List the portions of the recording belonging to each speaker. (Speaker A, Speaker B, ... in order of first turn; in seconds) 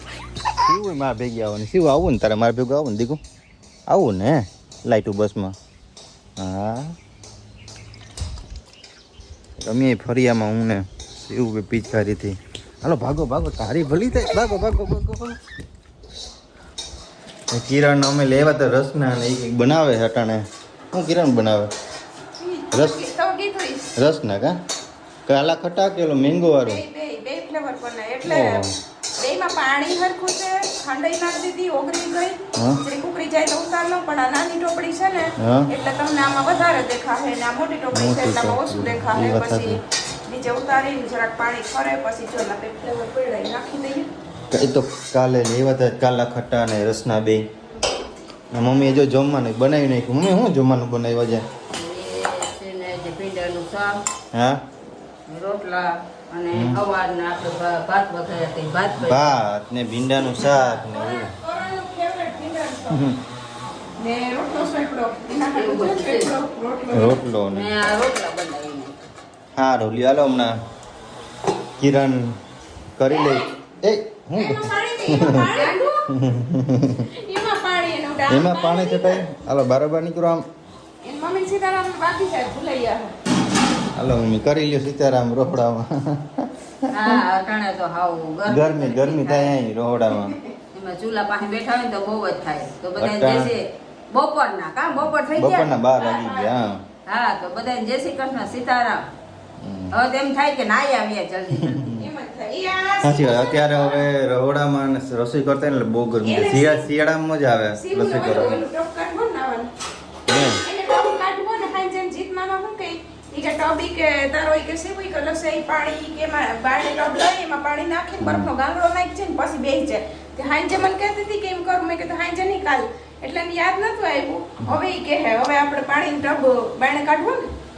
Speaker A: 0.5-3.2, 3.9-5.6, 6.4-7.0, 9.6-15.4, 17.5-21.7, 22.7-23.0, 24.0-24.6, 25.3-26.8, 28.2-28.8, 35.4-35.7, 37.9-39.8, 44.5-47.4, 48.5-51.5, 54.3-54.6, 56.5-56.8, 59.0-61.4, 62.9-63.2, 66.9-67.8, 69.6-70.6, 71.8-72.4, 73.0-77.1, 78.3-80.5, 84.0-87.2, 88.5-90.4, 93.0-93.6, 95.1-96.8, 99.6-100.0, 101.6-102.0, 103.0-108.6, 110.3-110.6, 118.2-118.5
Speaker B: 22.4-23.9, 26.6-28.7, 29.2-44.1, 60.9-63.1, 64.0-67.2, 74.4-76.1, 77.1-79.2, 81.0-83.1, 96.0-96.6, 101.9-104.1, 106.2-106.9, 107.8-109.7, 110.6-127.5
Speaker C: 51.7-54.0, 55.3-59.4, 65.5-66.4, 67.5-69.0, 86.9-89.5, 90.7-95.7, 97.1-99.1, 99.9-101.9